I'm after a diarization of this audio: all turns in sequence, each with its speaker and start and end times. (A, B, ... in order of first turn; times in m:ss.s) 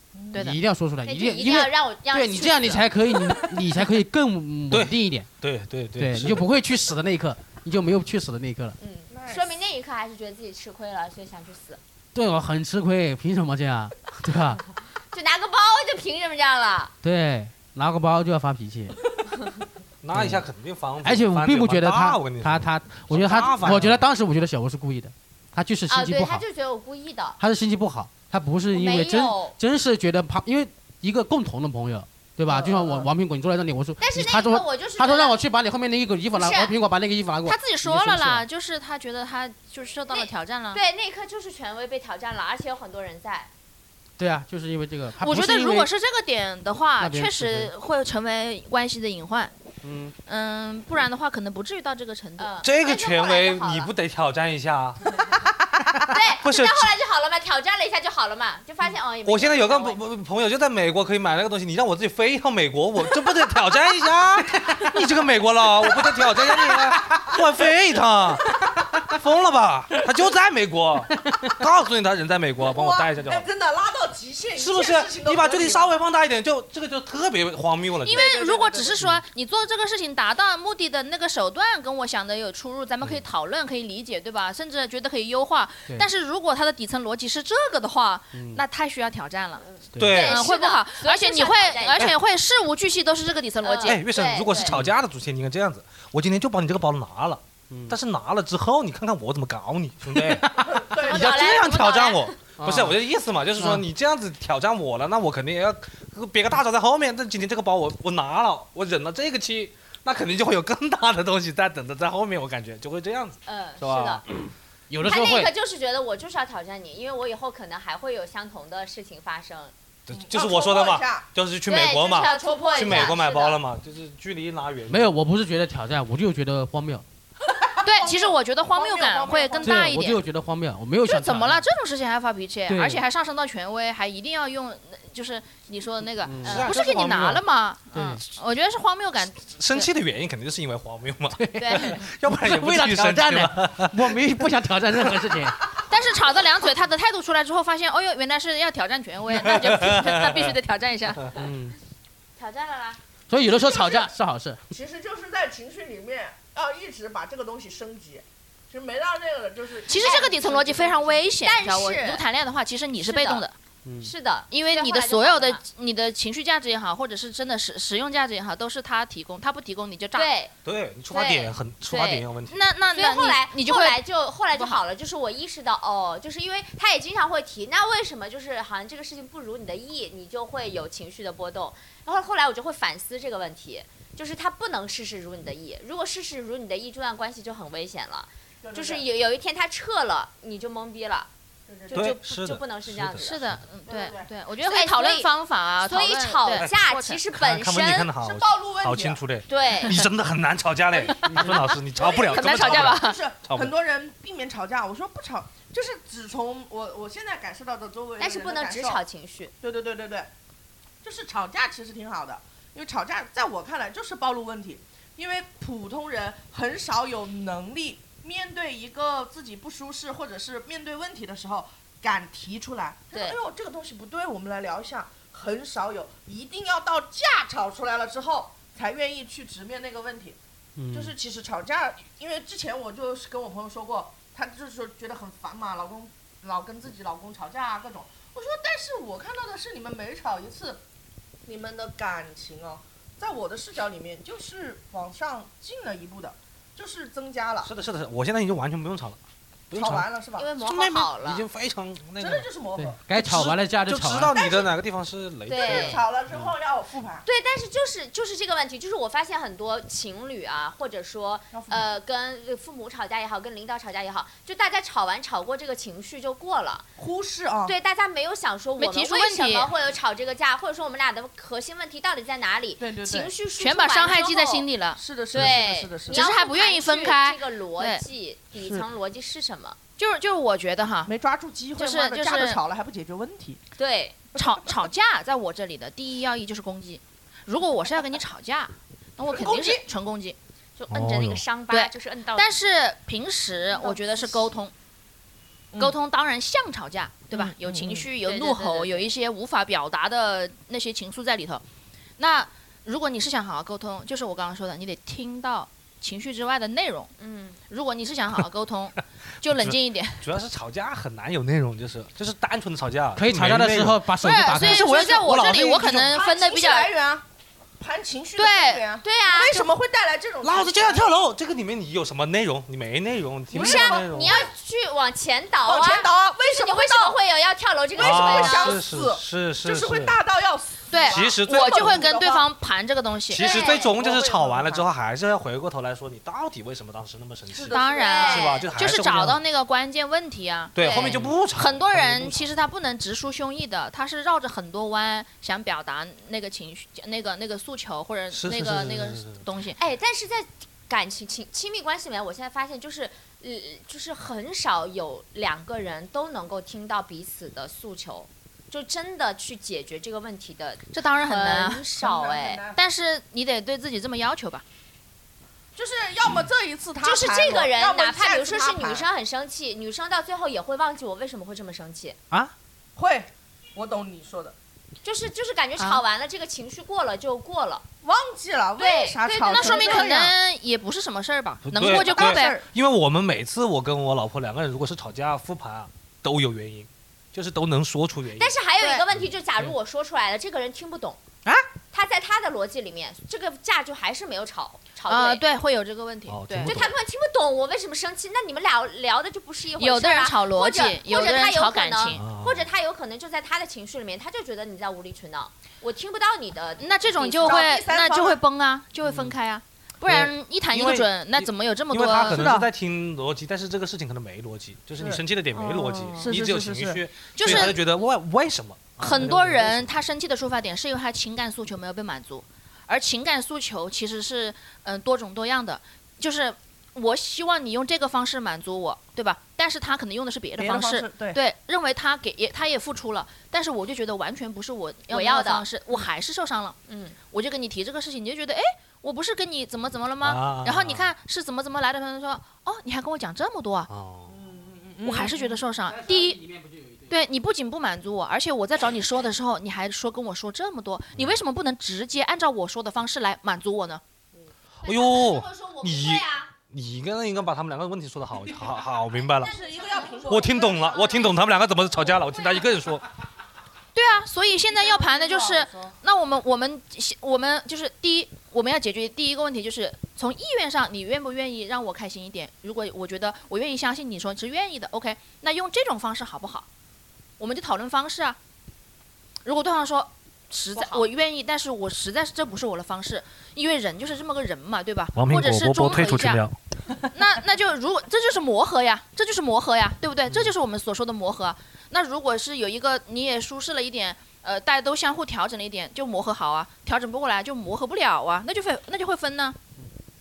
0:00.2-0:00.4 A
0:00.3-0:00.6 B
0:00.3-0:05.3 C
0:01.0-0:02.9 D
0:04.7-0:06.5 E
0:06.0-0:08.8 C
0:08.8-0:11.8 D
0:09.1-0:09.6 A
0:12.2-0:14.6 C
0:15.1-0:16.9 D
0:17.0-0:19.0 C
0:20.0-0:24.0 E
0:20.1-0:20.4 C
0:21.0-0:26.4 C
0:25.9-0:27.4 D
0:27.4-0:38.4 C
0:28.7-0:29.6 D
0:32.5-0:33.0 D
0:34.0-0:35.4 D
0:36.3-0:36.7 D
0:37.4-0:40.8 B
0:40.1-0:43.5 D
0:44.2-0:45.9 C
0:45.2-0:49.5 B
0:47.0-0:47.7 C
0:49.8-0:50.1 C
0:50.3-0:52.5 B
0:52.4-0:53.9 D
0:52.6-0:55.1 E
0:56.1-1:00.0 D
0:56.4-0:56.9 E
0:59.2-1:13.5 E
1:11.2-1:11.5 C
1:12.6-1:15.9 A
1:14.6-1:18.2 E
1:18.0-1:34.0 B
1:18.1-1:19.0 A
1:28.3-1:28.6 C
1:29.6-1:32.1 D
1:30.0-1:30.3 C
1:30.0-1:30.4 E
1:33.6-1:34.8 D
1:33.8-1:54.2 E
1:34.7-1:34.9 C
1:37.7-1:38.0 C
1:40.2-1:40.8 C
1:40.6-1:41.6 A
1:40.9-1:42.4 D
1:42.6-1:43.0 C
1:53.5-1:54.2 D
1:54.9-1:55.5 C
1:55.0-1:59.7 D
2:00.1-2:05.1 E
2:00.1-2:01.3 A
2:01.7-2:03.6 D
2:02.0-2:03.2 A
2:04.9-2:07.0 C
2:07.5-2:09.9 A
2:07.8-2:10.2 B
2:09.6-2:11.7 C
2:11.0-2:19.9 B
2:12.7-2:13.0 C
2:16.2-2:16.7 C
2:16.4-2:17.4 E
2:17.9-2:18.2 C
2:19.5-2:24.2 E
2:21.4-2:25.8 C
2:21.6-2:22.0 B
2:25.0-2:25.4 E
2:25.9-2:31.2 B
2:29.3-2:30.5 E
2:31.3-2:31.8 C
2:32.4-2:33.0 D
2:33.3-2:34.6 C
2:33.4-2:34.1 A
2:34.7-2:41.1 A
2:39.9-2:43.6 B
2:39.9-2:42.2 D
2:43.0-2:43.4 D
2:43.8-2:44.1 C
2:44.0-2:45.6 D
2:44.5-2:50.3 B
2:50.2-2:50.5 D
2:50.6-2:52.6 E
2:51.1-2:52.2 D
2:52.5-2:54.0 B
2:52.9-3:11.3 D
2:54.5-2:54.8 B
3:08.6-3:09.0 A
3:11.7-3:12.1 A
3:11.9-3:13.4 D
3:11.9-3:13.6 E
3:13.2-3:17.2 B
3:13.9-3:14.3 A
3:14.6-3:18.2 D
3:16.5-3:16.8 E
3:17.3-3:23.7 E
3:18.2-3:19.2 A
3:19.5-3:20.0 D
3:21.0-3:29.0 A
3:21.2-3:21.5 C
3:22.0-3:23.2 B
3:28.2-3:29.5 D
3:29.6-3:30.3 A
3:31.0-3:50.4 A
3:43.1-3:43.4 D
3:50.8-3:51.1 C
3:50.9-4:00.8 A
4:01.5-4:07.7 A
4:07.6-4:10.1 E
4:09.7-4:10.5 A
4:10.4-4:11.4 D
4:10.6-4:12.5 E
4:12.2-4:13.0 A
4:12.8-4:14.4 C
4:13.1-4:16.5 E
4:14.4-4:14.7 A
4:15.5-4:16.0 D
4:15.6-4:17.2 A
4:17.2-4:26.9 D
4:21.5-4:21.9 A
4:27.0-4:27.8 A
4:27.6-4:34.7 D
4:28.8-4:29.7 B
4:32.8-4:33.3 A
4:33.6-4:35.0 B
4:35.0-4:36.3 A
4:35.3-4:39.8 D
4:36.1-4:38.0 B
4:38.6-4:38.9 A
4:40.0-4:41.1 B
4:41.1-4:43.6 A
4:41.8-4:42.6 B
4:43.8-4:44.2 D
4:44.4-4:50.4 B
4:49.3-4:49.8 A
4:50.8-4:52.5 D
4:50.9-4:51.4 E
4:51.7-4:54.7 B
4:53.8-4:54.5 D
4:55.8-5:01.6 B
4:57.3-4:58.1 A
4:58.2-4:59.1 D
5:02.2-5:07.1 B
5:07.2-5:07.6 D
5:07.7-5:10.3 B
5:09.4-5:16.1 E
5:13.2-5:15.0 C
5:14.2-5:16.9 B
5:16.0-5:17.2 A
5:17.8-5:21.0 A
5:18.4-5:18.8 B
5:19.0-5:19.7 D
5:20.4-5:24.5 E
5:23.5-5:28.8 D
5:23.5-5:24.5 A
5:25.7-5:27.2 A
5:28.0-5:32.5 A
5:28.0-5:30.2 E
5:30.9-5:33.5 B
5:31.1-5:32.0 E
5:33.3-5:39.4 E
5:33.4-5:33.9 D
5:33.4-5:34.9 A
5:37.6-5:40.8 B
5:37.7-5:38.7 D
5:40.8-5:42.5 E
5:40.8-5:41.2 D
5:41.5-5:49.8 B
5:48.3-5:49.4 E
5:49.8-6:02.6 D
6:00.9-6:01.8 B
6:02.0-6:02.8 A
6:02.8-6:04.6 B
6:05.8-6:09.0 A
6:07.0-6:12.2 D
6:13.0-6:14.6 A
6:15.0-6:17.8 D
6:18.0-6:20.4 A
6:18.8-6:20.1 D
6:19.3-6:22.6 B
6:21.6-6:28.6 E
6:21.8-6:22.6 A
6:28.4-6:31.2 D
6:31.9-6:35.4 D
6:35.1-6:36.8 B
6:36.3-6:36.9 E
6:36.6-6:47.7 D
6:39.8-6:42.2 B
6:42.1-6:42.7 E
6:46.8-6:52.5 B
6:47.4-6:48.4 A
6:50.0-6:59.9 E
6:52.3-6:52.7 A
6:55.6-6:56.3 D
6:56.1-6:57.0 A
6:57.4-6:57.8 B
6:59.0-7:16.8 B
7:10.6-7:11.4 A
7:15.1-7:16.0 D
7:16.9-7:17.2 D
7:17.3-7:23.9 B
7:20.2-7:21.1 E
7:23.9-7:24.4 E
7:24.3-7:25.6 A
7:25.0-7:26.4 B
7:25.8-7:27.2 C
7:27.1-7:34.0 B
7:34.8-7:36.5 D
7:34.8-7:39.6 E
7:39.4-7:41.0 D
7:39.4-7:41.3 A
7:40.3-7:43.1 E
7:44.0-7:56.7 B
7:44.7-7:45.9 A
7:57.4-7:58.4 B
7:59.4-8:06.4 B
8:05.2-8:06.6 E
8:07.1-8:19.6 B